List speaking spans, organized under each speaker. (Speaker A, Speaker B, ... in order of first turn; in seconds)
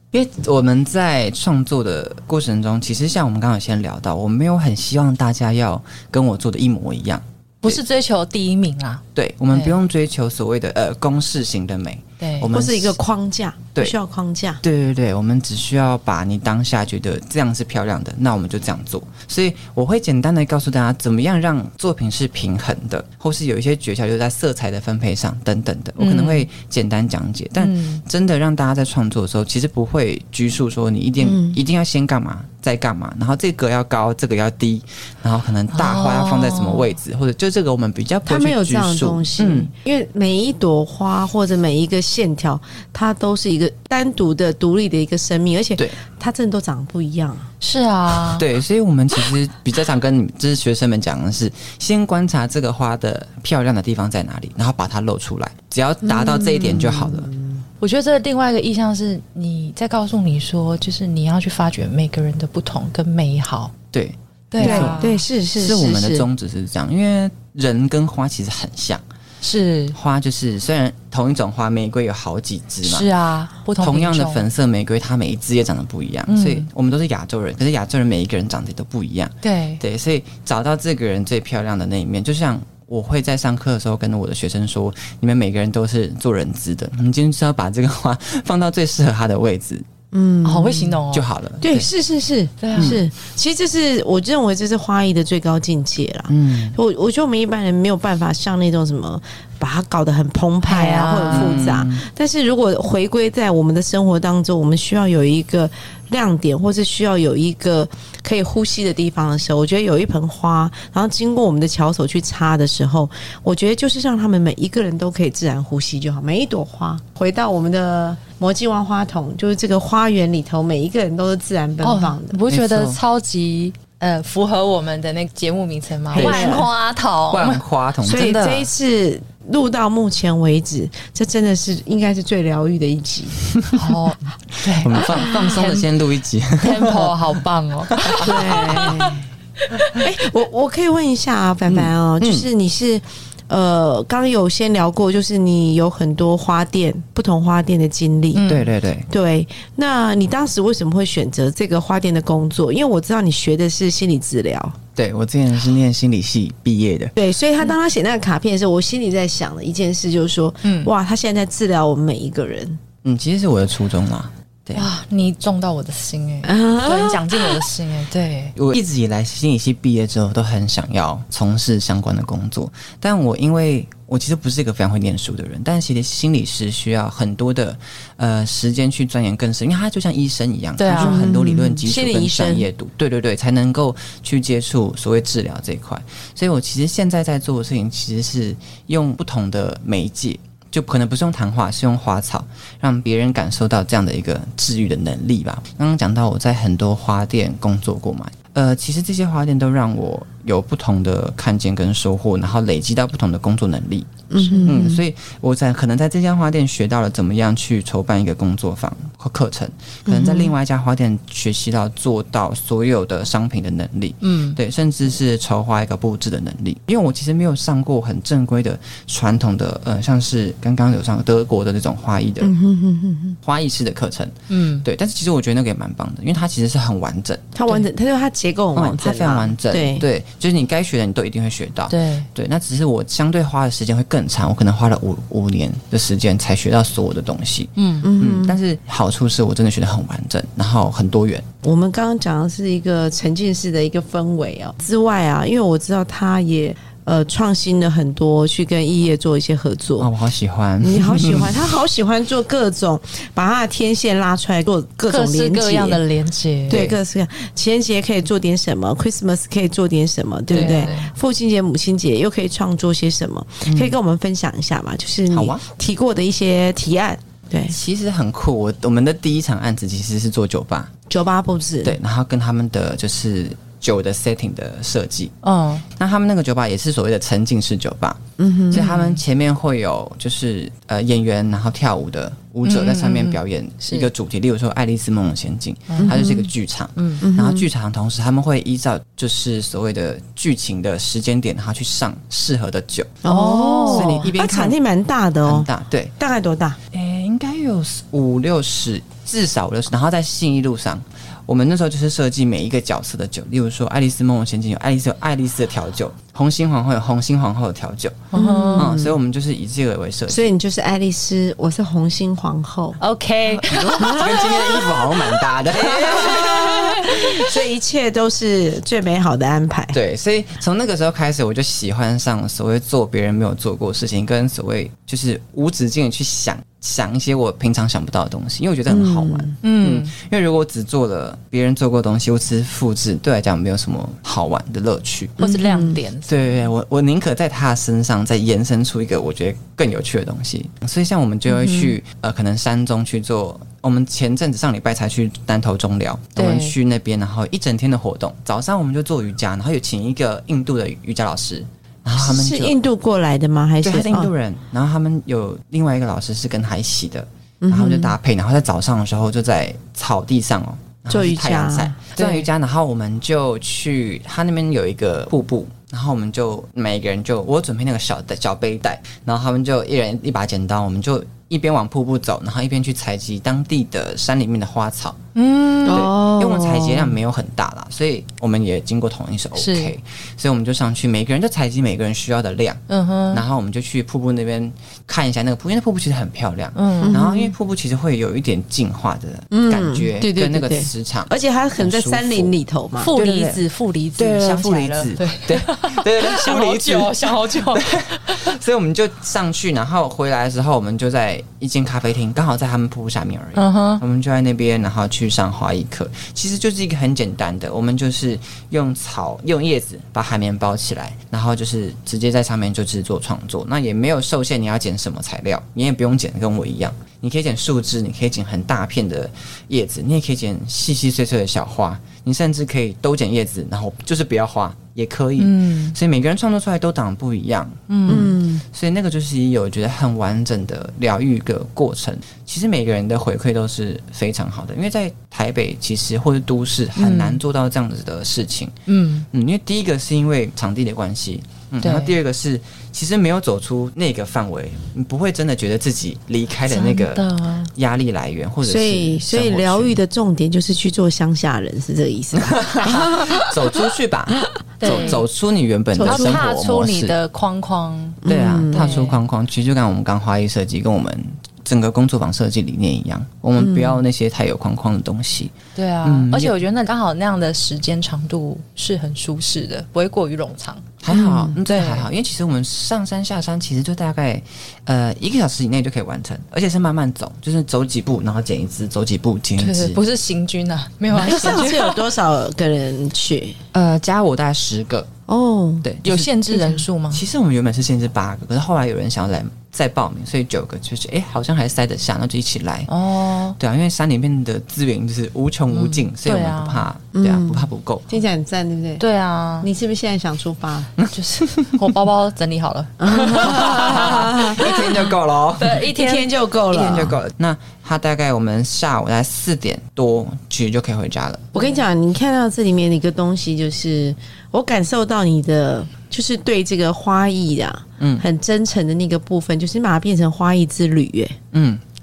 Speaker A: 0.1-7.8, 9.1-13.0, 14.6-39.7, 48.2-57.3, 63.9-65.0, 65.6-69.0, 69.9-73.1, 73.8-89.8, 91.1-91.9, 92.8-93.0, 96.3-96.8, 101.3-102.0, 122.5-123.0, 126.2-126.5, 127.3-128.5, 133.6-133.8, 134.6-137.2, 137.9-139.0, 141.7-142.4, 148.4-149.1, 154.9-157.2, 163.0-164.9, 168.5-222.5, 223.4-227.5, 228.7-241.4, 250.0-251.6, 256.7-257.0, 260.5-261.1, 263.6-263.9, 265.3-265.6, 267.7-270.9, 271.8-275.3, 275.9-278.2, 278.7-293.2, 293.9-294.8, 295.4-296.1, 296.9-310.5, 313.5-317.2, 319.9-335.4, 336.2-352.8, 353.8-375.2, 375.9-392.5, 393.2-393.6, 394.2-438.7, 439.3-450.0, 452.5-457.1, 458.2-466.5, 471.0-480.0, 483.7-485.1, 485.8-486.3, 487.1-492.9, 493.6-498.1, 501.0-501.9, 503.4-505.9, 506.7-511.6, 518.0-518.2, 521.5-521.8
Speaker B: 7.6-9.8, 12.2-12.5, 26.0-26.5, 27.6-28.0, 35.7-36.9, 47.6-48.4, 57.8-63.7, 64.5-65.2, 69.4-70.0, 72.8-74.5, 76.3-76.6, 79.4-79.8, 90.4-91.3, 92.6-93.0, 100.6-101.8, 121.8-128.6, 133.7-135.9, 136.6-139.1, 139.7-139.9, 148.3-148.7, 160.6-160.9, 164.7-168.5, 180.8-181.3, 214.2-214.6, 224.5-224.8, 231.9-232.3, 237.8-238.1, 255.1-256.9, 260.5-261.1, 275.4-275.8, 278.7-279.2, 282.6-284.1, 285.9-286.3, 286.9-287.2, 293.2-294.3, 308.3-308.9, 313.0-314.9, 316.1-317.2, 329.6-330.1, 335.4-336.4, 341.5-341.9, 346.4-346.8, 362.1-362.5, 375.3-376.1, 379.6-379.9, 382.9-383.4, 386.8-387.2, 393.0-398.5, 403.6-404.0, 425.4-426.0, 427.9-428.4, 437.0-437.4, 438.9-439.2, 441.8-442.2, 446.7-447.7, 454.8-455.2, 456.0-459.2, 465.8-470.9, 471.6-472.1, 479.6-482.0, 486.0-487.2, 492.9-493.6, 495.7-496.9, 499.0-499.7, 501.1-506.3, 511.6-511.8
Speaker C: 12.5-14.6, 31.2-31.6, 38.2-47.5, 56.1-57.6, 64.6-66.3, 90.1-91.0, 91.6-122.4, 126.1-126.7, 128.0-133.4, 138.1-139.2, 139.9-148.5, 149.1-154.8, 157.2-162.8, 166.4-167.6, 180.9-182.7, 204.3-205.0, 210.1-210.5, 222.4-223.4, 227.5-230.0, 238.0-238.6, 241.6-250.1, 250.8-256.0, 256.7-267.8, 271.1-272.0, 278.4-278.8, 286.0-286.4, 287.2-287.6, 293.2-296.8, 308.3-309.1, 310.3-313.0, 313.9-320.0, 328.9-329.6, 335.4-336.0, 352.2-354.3, 357.6-358.1, 361.1-362.0, 375.8-377.1, 387.0-387.5, 389.5-393.2, 428.1-428.6, 448.6-453.6, 454.8-455.1, 456.0-456.4, 458.2-459.0, 463.6-464.0, 471.1-471.6, 481.1-483.6, 485.3-485.9, 497.1-499.0, 499.6-500.9, 503.0-504.9, 505.9-507.2, 511.5-521.4